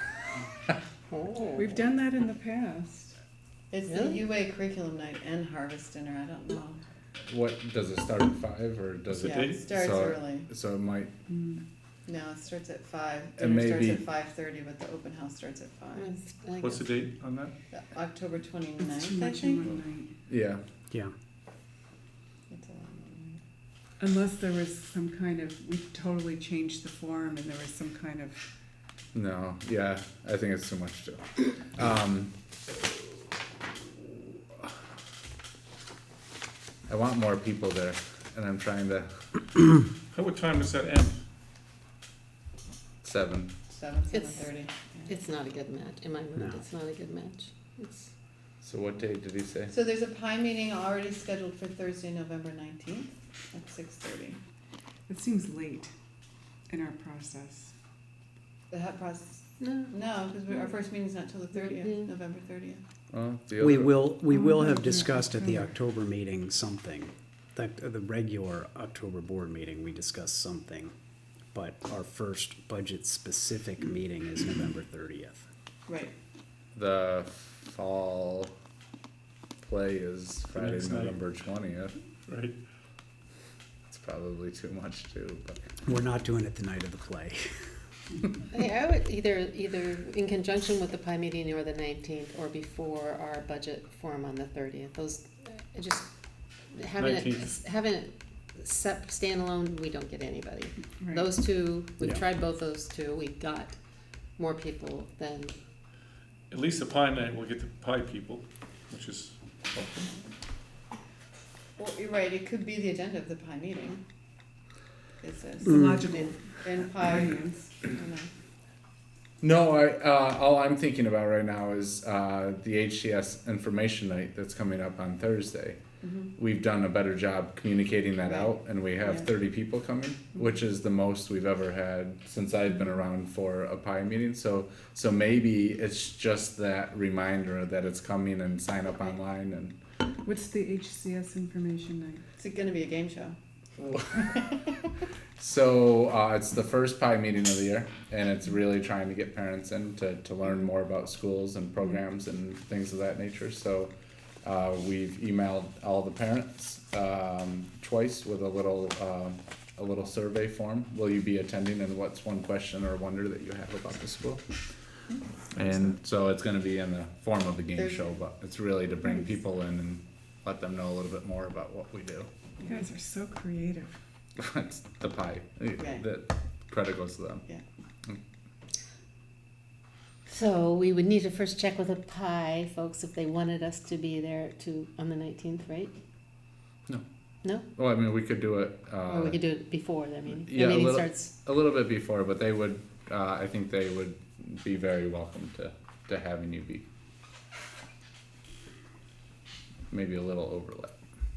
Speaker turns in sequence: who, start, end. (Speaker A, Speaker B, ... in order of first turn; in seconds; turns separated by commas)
Speaker A: 1.1-1.8, Speaker B: 1.5-3.1, Speaker C: 3.7-6.8, Speaker A: 3.9-4.2, Speaker D: 7.3-11.1, Speaker E: 9.1-9.7, Speaker C: 9.2-10.5, Speaker C: 12.1-16.1, Speaker D: 13.4-14.0, Speaker A: 15.9-16.8, Speaker E: 16.6-17.5, Speaker C: 17.7-19.7, Speaker B: 18.8-20.1, Speaker D: 20.3-20.6, Speaker C: 22.5-23.4, Speaker B: 24.0-28.4, Speaker D: 29.1-32.3, Speaker D: 36.9-39.2, Speaker E: 40.1-41.2, Speaker D: 43.0-43.5, Speaker C: 43.7-45.1, Speaker A: 44.1-44.5, Speaker A: 45.1-48.1, Speaker D: 48.6-49.7, Speaker C: 49.7-54.4, Speaker B: 55.1-55.9, Speaker B: 56.7-57.7, Speaker C: 58.7-62.8, Speaker A: 59.6-59.9, Speaker A: 61.7-62.1, Speaker D: 63.1-64.0, Speaker F: 63.6-70.9, Speaker B: 64.3-65.6, Speaker F: 71.5-75.5, Speaker C: 75.9-76.1, Speaker D: 76.7-78.5, Speaker D: 79.6-81.9, Speaker E: 80.5-81.2, Speaker E: 82.3-82.6, Speaker D: 83.9-85.6, Speaker F: 85.8-87.5, Speaker A: 88.5-96.1, Speaker A: 96.7-103.8, Speaker E: 96.9-97.6, Speaker B: 101.0-101.3, Speaker A: 104.4-105.5, Speaker E: 106.5-110.2, Speaker C: 111.8-114.0, Speaker C: 115.2-118.3, Speaker B: 115.6-117.7, Speaker D: 119.4-125.8, Speaker C: 126.0-126.3, Speaker D: 126.3-139.8, Speaker C: 128.2-128.5, Speaker B: 140.2-142.2, Speaker C: 142.4-144.7, Speaker D: 145.4-164.4, Speaker D: 165.5-172.3, Speaker C: 167.7-168.0, Speaker B: 172.6-173.9, Speaker D: 174.4-177.4, Speaker C: 175.8-176.0, Speaker A: 180.2-185.9, Speaker D: 187.7-189.4, Speaker A: 189.1-191.3, Speaker D: 190.4-196.8, Speaker D: 199.9-200.9